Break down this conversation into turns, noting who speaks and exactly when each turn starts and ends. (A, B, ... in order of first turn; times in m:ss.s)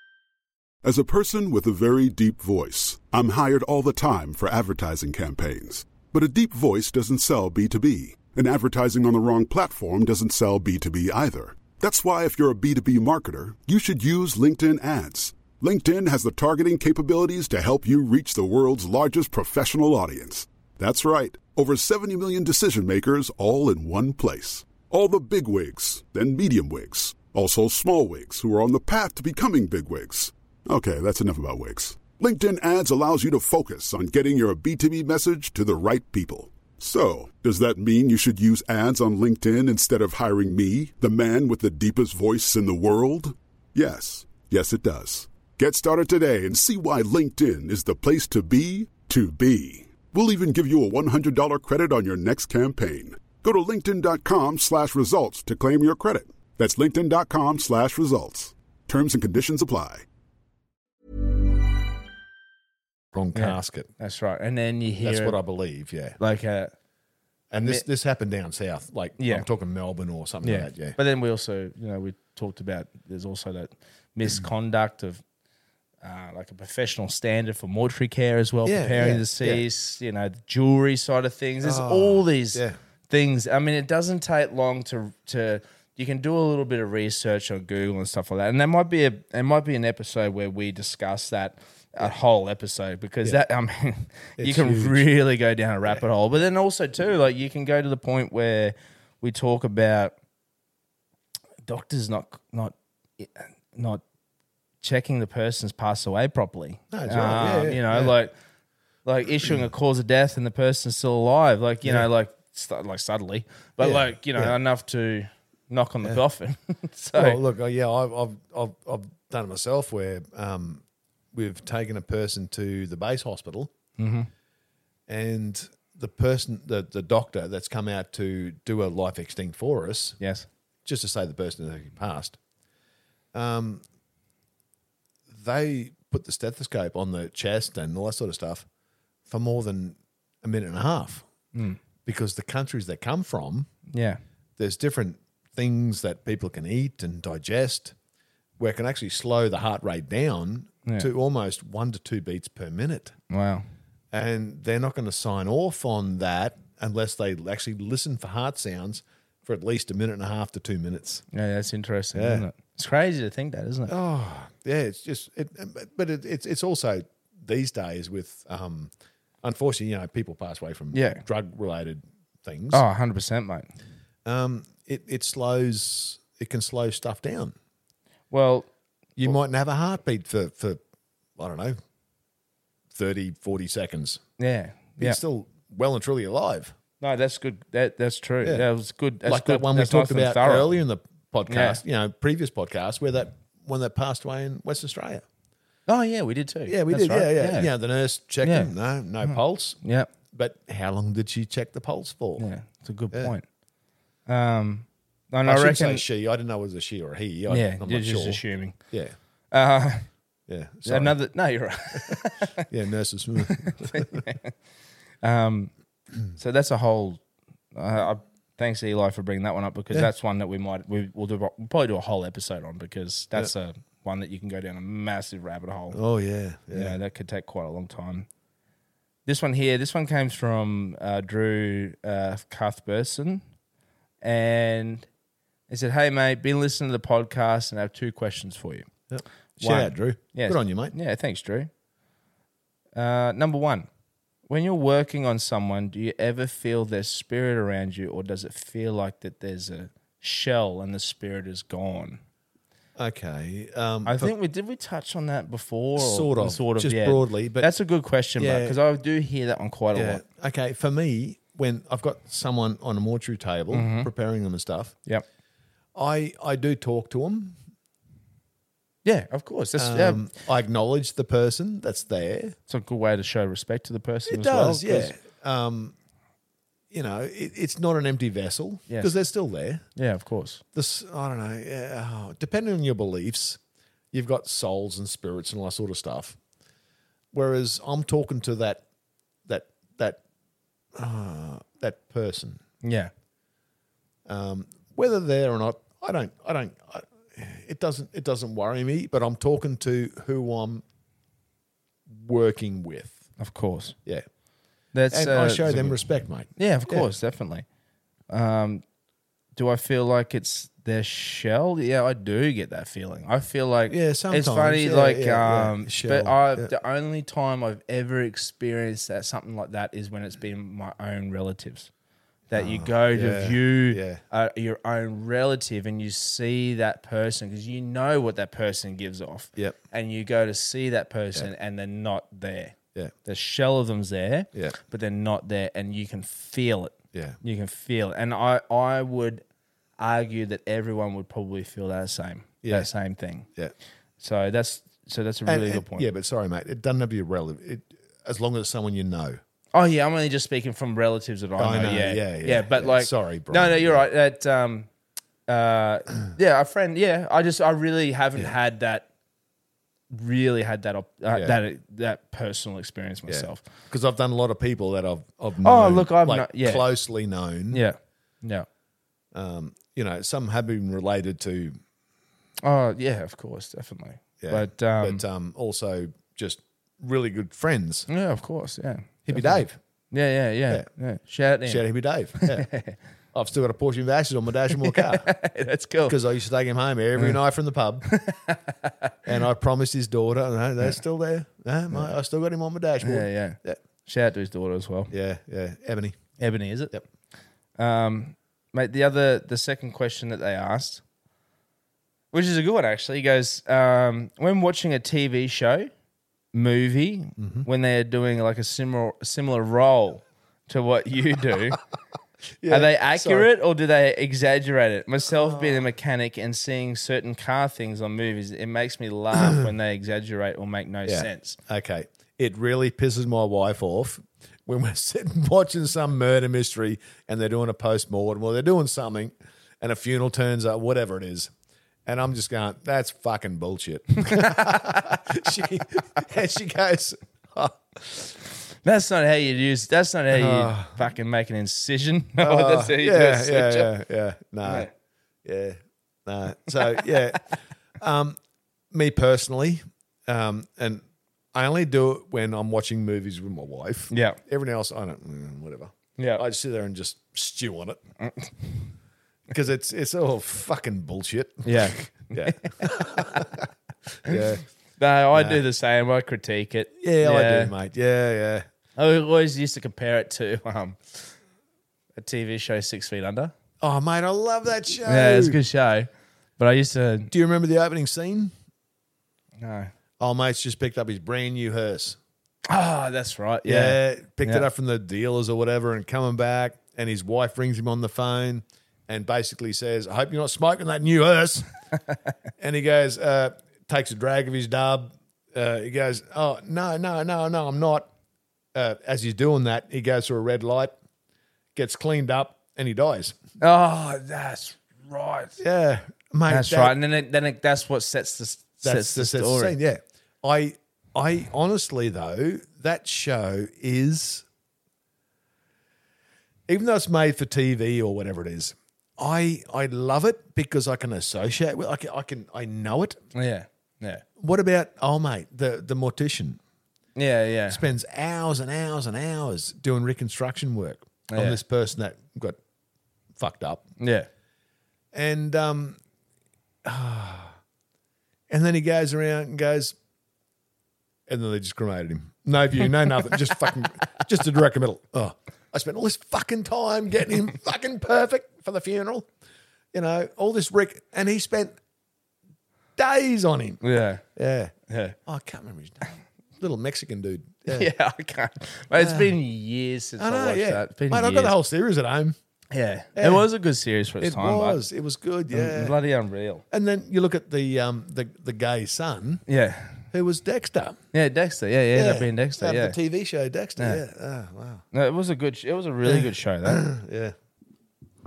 0:00.8-1:00.0 A
1:03.1-1:03.9 B
1:03.3-1:05.4 C
1:05.0-1:06.2 B
1:06.2-1:06.7 C
1:07.5-1:11.0 B
1:09.2-1:09.4 C
1:10.4-1:15.2 C
1:16.0-1:40.1 C
1:18.6-1:19.6 B
1:21.6-1:22.8 B
1:34.4-1:35.1 B
1:41.6-1:44.0 C
1:44.8-1:48.3 C
1:46.9-1:48.1 B
1:49.0-1:57.4 C
1:53.8-1:54.6 B
1:57.1-2:03.7 B
2:04.0-2:04.3 C
2:05.1-2:10.2 B
2:10.2-2:10.5 C
2:10.8-2:12.4 B
2:13.3-2:13.8 B
2:15.3-2:18.6 B
2:19.3-2:21.2 B
2:22.0-2:23.7 B
2:23.9-2:24.2 C
2:24.6-2:27.9 B
2:28.6-2:33.1 B
2:33.3-2:33.7 C
2:34.1-2:41.2 B
2:41.3-2:43.9 C
2:42.1-2:42.4 B
2:43.9-2:52.8 B
2:50.9-2:51.2 C
2:52.7-2:53.7 C
2:54.2-2:57.5 B
2:58.3-2:58.7 C
2:59.2-3:00.8 B
3:01.4-3:01.8 B
3:02.9-3:04.2 B
3:04.4-3:05.2 C
3:05.0-3:06.7 B
3:07.0-3:10.7 C
3:09.2-3:15.2 B
3:11.5-3:11.8 C
3:15.9-3:17.7 C
3:16.7-3:19.8 B
3:18.4-3:18.7 C
3:19.2-3:20.1 C
3:20.3-3:22.4 B
3:22.4-3:23.4 C
3:24.3-3:26.0 C
3:25.4-3:29.1 B
3:27.5-3:28.8 C
3:29.5-3:30.1 C
3:30.5-3:31.1 B
3:30.8-3:32.6 C
3:32.0-3:34.2 B
3:33.4-3:34.5 C
3:35.2-3:35.7 C
3:36.3-3:37.2 C
3:37.7-3:46.0 C
3:45.9-3:47.0 B
3:46.7-3:48.3 C
3:49.2-3:53.4 C
3:54.2-3:55.1 C
3:55.7-3:58.9 C
3:59.1-4:00.9 B
3:59.6-4:01.7 C
4:02.9-4:03.9 C
4:04.5-4:12.2 C
4:13.0-4:14.3 B
4:14.0-4:20.2 C
4:16.0-4:17.7 B
4:18.4-4:18.8 B
4:19.9-4:24.9 B
4:23.7-4:24.1 C
4:25.9-4:27.6 B
4:29.0-4:30.2 C
4:29.8-4:32.6 B
4:32.7-4:35.2 C
4:34.3-4:35.9 B
4:36.9-4:39.8 B
4:40.0-4:40.6 C
4:40.7-4:43.6 B
4:44.1-4:46.4 B
4:47.3-4:48.8 B
4:49.4-4:50.2 B
4:50.9-4:52.6 B
4:52.8-4:53.1 C
4:54.2-5:00.8 B
5:02.1-5:03.2 B
5:03.4-5:04.0 C
5:04.9-5:06.0 C
5:05.1-5:07.1 B
5:06.6-5:07.6 C
5:08.3-5:08.8 C
5:09.6-5:21.9 C
5:13.9-5:16.7 B
5:22.5-5:39.4 C
5:22.5-5:24.2 B
5:40.0-5:43.5 C
5:42.6-5:42.9 B
5:44.2-5:46.1 C
5:45.4-5:49.4 B
5:49.7-5:54.9 C
5:51.6-5:54.0 B
5:55.5-5:59.1 C
6:00.1-6:03.6 C
6:03.3-6:07.8 B
6:05.6-6:06.8 C
6:07.7-6:08.6 C
6:09.3-6:11.8 B
6:12.6-6:15.2 C
6:14.4-6:18.1 B
6:18.1-6:21.8 C
6:19.2-6:19.8 B
6:21.6-6:22.7 B
6:22.4-6:23.0 C
6:23.3-6:25.3 B
6:24.8-6:26.2 C
6:26.0-6:28.0 B
6:28.1-6:29.1 C
6:29.2-6:33.8 B
6:33.0-6:35.1 C
6:35.1-6:36.2 B
6:36.4-6:37.0 C
6:37.8-6:41.0 C
6:42.3-6:45.9 C
6:46.5-6:51.8 C
6:47.4-6:47.6 B
6:52.6-6:53.5 B
6:52.7-7:01.6 C
6:55.5-6:55.8 B
7:01.0-7:11.5 B
7:12.0-7:18.3 B
7:14.2-7:15.2 C
7:18.8-7:23.9 C
7:20.3-7:21.1 B
7:22.4-7:24.9 B
7:24.6-7:24.9 C
7:25.4-7:28.4 B
7:28.9-7:31.0 B
7:31.5-7:38.0 B
7:34.1-7:34.4 C
7:36.2-7:36.4 C
7:38.2-7:38.5 C
7:39.5-7:43.6 B
7:41.6-7:43.5 C
7:44.2-7:44.6 B
7:45.0-7:47.7 C
7:45.3-7:45.6 B
7:47.0-7:48.6 B
7:49.0-7:51.3 C
7:52.2-7:53.5 C
7:53.8-7:55.6 B
7:55.0-7:57.3 C
7:57.3-7:58.5 B
7:59.6-7:59.9 C
8:00.2-8:02.2 B
8:02.7-8:04.6 C
8:03.6-8:11.7 B
8:12.6-8:18.1 B
8:18.7-8:20.9 B
8:21.7-8:23.4 B
8:23.6-8:25.6 C
8:25.6-8:27.0 B
8:26.5-8:29.7 C
8:28.8-8:34.4 B
8:36.7-8:43.2 B
8:43.3-8:44.2 C
8:44.4-8:46.6 B
8:47.2-8:47.8 C
8:47.7-8:52.6 B
8:51.3-8:51.6 C
8:53.4-8:53.8 B
8:54.0-8:54.3 C
8:55.1-8:56.0 B
8:56.8-8:57.6 B
8:58.5-9:00.0 B
9:01.3-9:09.3 B
9:09.9-9:11.8 B
9:13.0-9:13.8 B
9:13.8-9:14.2 C
9:14.3-9:14.7 B
9:14.9-9:15.2 C
9:15.2-9:17.9 B
9:17.7-9:21.5 C
9:18.9-9:19.4 B
9:20.2-9:22.4 B
9:22.7-9:24.8 C
9:23.2-9:23.4 B
9:24.2-9:26.0 B
9:25.5-9:26.6 C
9:26.7-9:29.4 B
9:29.5-9:30.1 C
9:30.1-9:31.0 B
9:31.1-9:33.0 C
9:31.9-9:34.8 B
9:34.9-9:36.8 C
9:36.0-9:37.3 B